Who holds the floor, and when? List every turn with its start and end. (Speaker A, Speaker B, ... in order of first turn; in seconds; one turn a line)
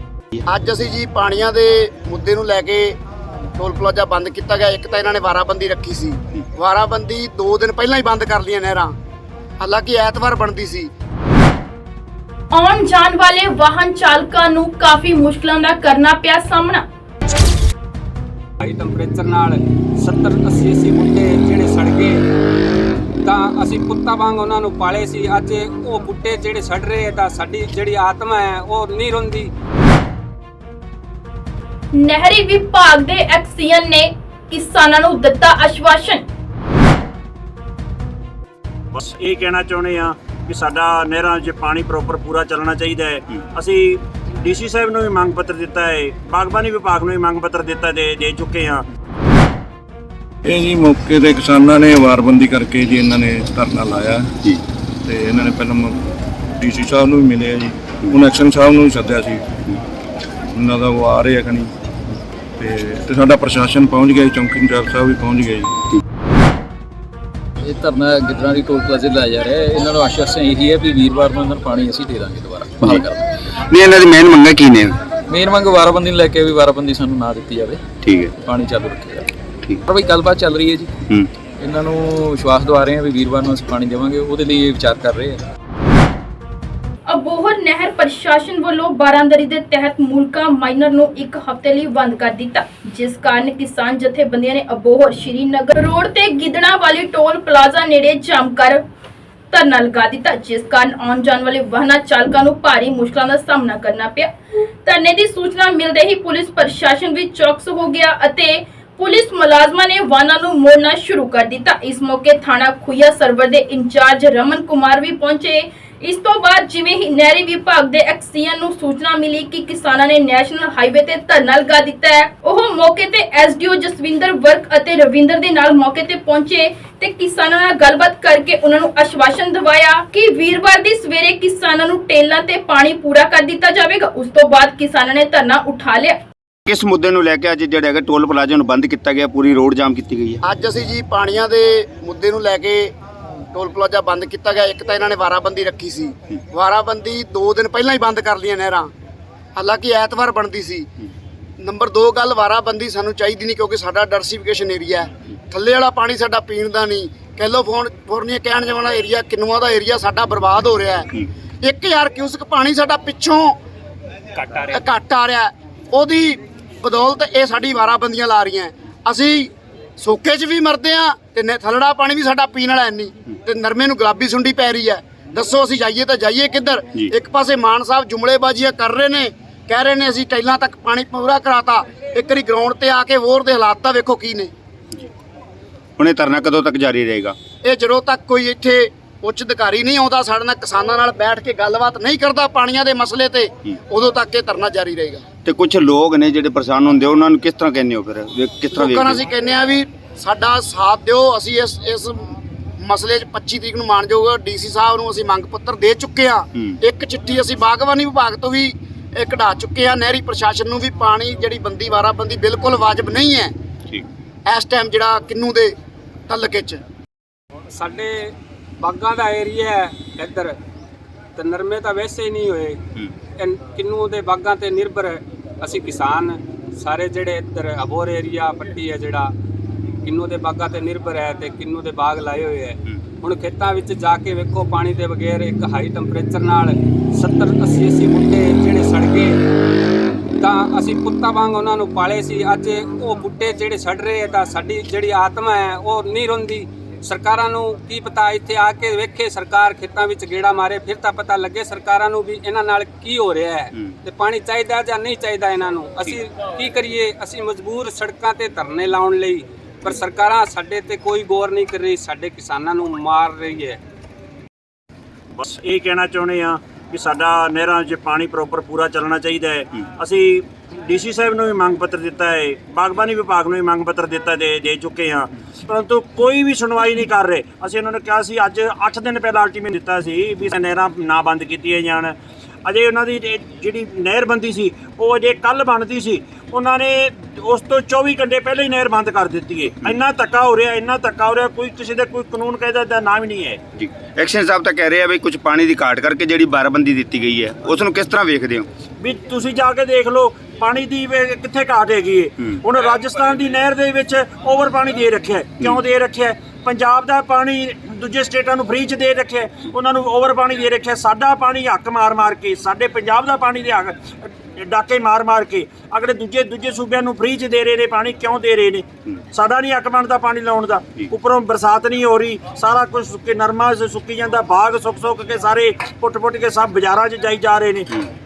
Speaker A: 0.5-3.0
Speaker A: 3.6-8.9
Speaker A: 9.6-10.9
Speaker B: 12.5-16.8
Speaker C: 18.6-22.2
Speaker C: 23.2-29.5
Speaker B: 31.9-36.2
Speaker D: 38.9-48.8
Speaker E: 50.4-54.4
Speaker E: 55.0-56.0
Speaker E: 56.6-59.8
Speaker E: 60.5-61.7
Speaker E: 62.6-65.8
Speaker F: 67.6-73.2
Speaker G: 72.8-75.0
Speaker F: 75.3-77.8
Speaker G: 78.0-78.3
Speaker F: 78.4-79.3
Speaker F: 79.8-81.0
Speaker F: 81.6-85.4
Speaker B: 87.1-98.8
Speaker B: 99.5-104.3
Speaker B: 104.8-136.2
Speaker G: 136.7-140.4
Speaker A: 140.4-142.9
Speaker A: 143.5-148.9
Speaker A: 149.6-150.9
Speaker A: 151.6-163.6
Speaker A: 164.6-184.5
Speaker G: 186.0-187.3
Speaker A: 187.6-195.2
Speaker G: 195.4-199.2
Speaker A: 198.7-213.5
Speaker A: 214.5-215.7
Speaker A: 216.3-216.8
Speaker C: 217.7-220.6
Speaker C: 221.3-222.8
Speaker C: 223.4-229.3
Speaker C: 230.0-239.4
Speaker C: 240.4-263.8
Speaker D: 265.3-293.6
Speaker G: 293.8-298.7
Speaker D: 299.0-327.9